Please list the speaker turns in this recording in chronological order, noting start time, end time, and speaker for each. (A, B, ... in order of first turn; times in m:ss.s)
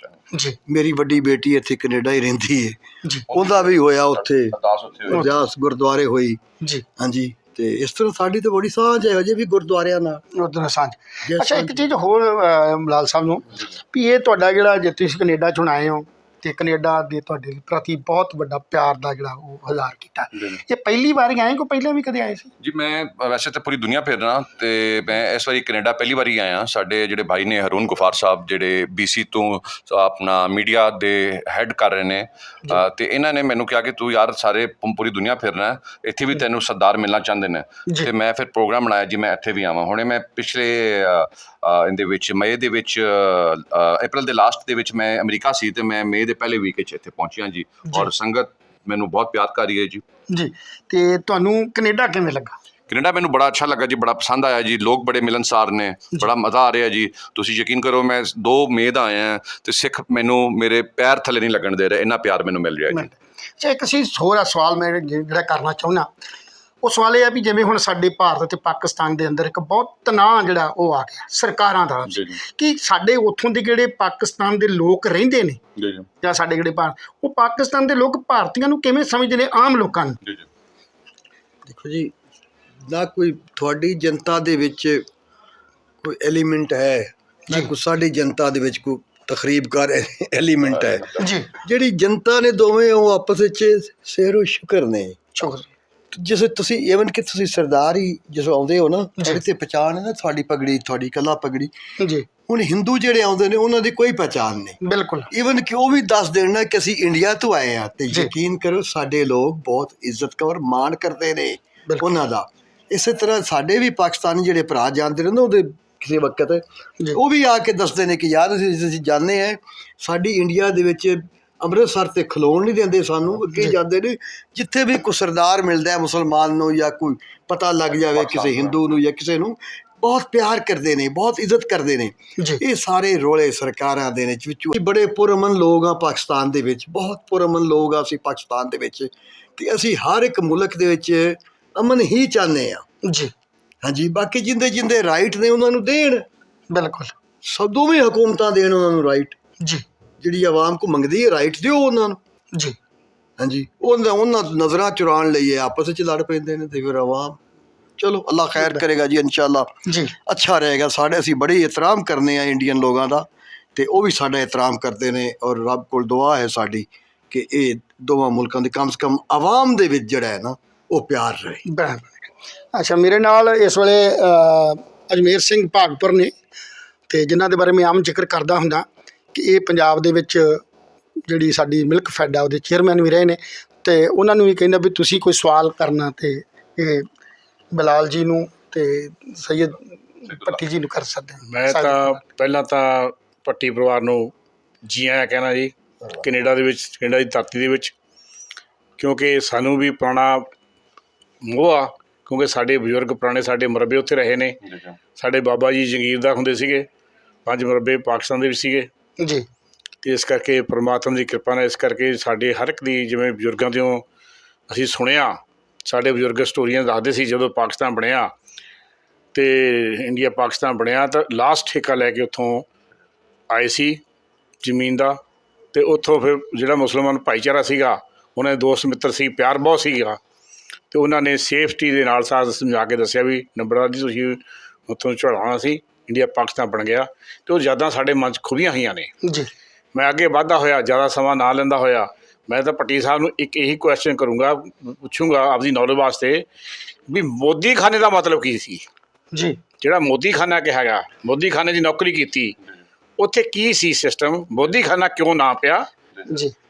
0:00.3-0:00.6 A
0:00.7-0:04.6 B
0:03.3-0:05.3 C
0:05.1-0:06.4 B
0:06.6-0:06.8 A
0:07.0-0:10.2 B
0:10.3-0:22.5 A
0:11.2-0:11.8 B
0:22.6-0:50.0 C
0:50.3-0:52.6 A
0:52.9-1:03.1 C
1:02.9-1:06.1 A
1:06.8-1:15.6 A
1:12.1-1:12.4 C
1:15.8-1:16.0 C
1:16.2-1:20.2 A
1:21.6-1:22.1 B
1:22.9-1:25.0 B
1:26.0-1:35.2 B
1:30.8-1:31.1 C
1:31.2-1:31.5 A
1:35.3-1:35.7 A
1:36.1-1:41.7 B
1:42.0-1:42.3 A
1:42.5-1:44.8 B
1:44.8-1:45.3 A
1:45.3-1:56.6 B
1:57.1-2:22.8 B
2:08.0-2:08.8 C
2:23.0-2:23.3 A
2:23.8-2:26.2 B
2:26.7-2:27.1 A
2:27.4-2:29.4 B
2:30.2-2:32.2 B
2:33.4-2:37.4 B
2:38.0-2:51.6 B
2:39.8-2:40.1 A
2:51.6-2:56.3 A
2:57.1-3:00.6 A
3:01.3-3:07.1 A
3:07.7-3:12.2 A
3:10.3-3:10.6 C
3:11.5-3:14.3 D
3:14.8-3:17.9 D
3:19.0-3:20.5 D
3:21.4-3:24.6 D
3:24.7-3:24.9 C
3:25.1-3:26.9 D
3:27.4-3:28.9 D
3:29.2-3:29.4 A
3:30.0-3:34.0 D
3:34.7-3:38.3 D
3:39.3-3:42.6 D
3:43.5-3:44.0 D
3:44.6-3:45.2 D
3:45.7-3:50.2 D
3:50.9-3:59.1 D
3:59.2-3:59.5 A
3:59.9-4:06.5 D
4:07.1-4:08.8 D
4:09.3-4:09.6 A
4:09.8-4:12.6 D
4:13.2-4:15.9 D
4:16.3-4:16.5 A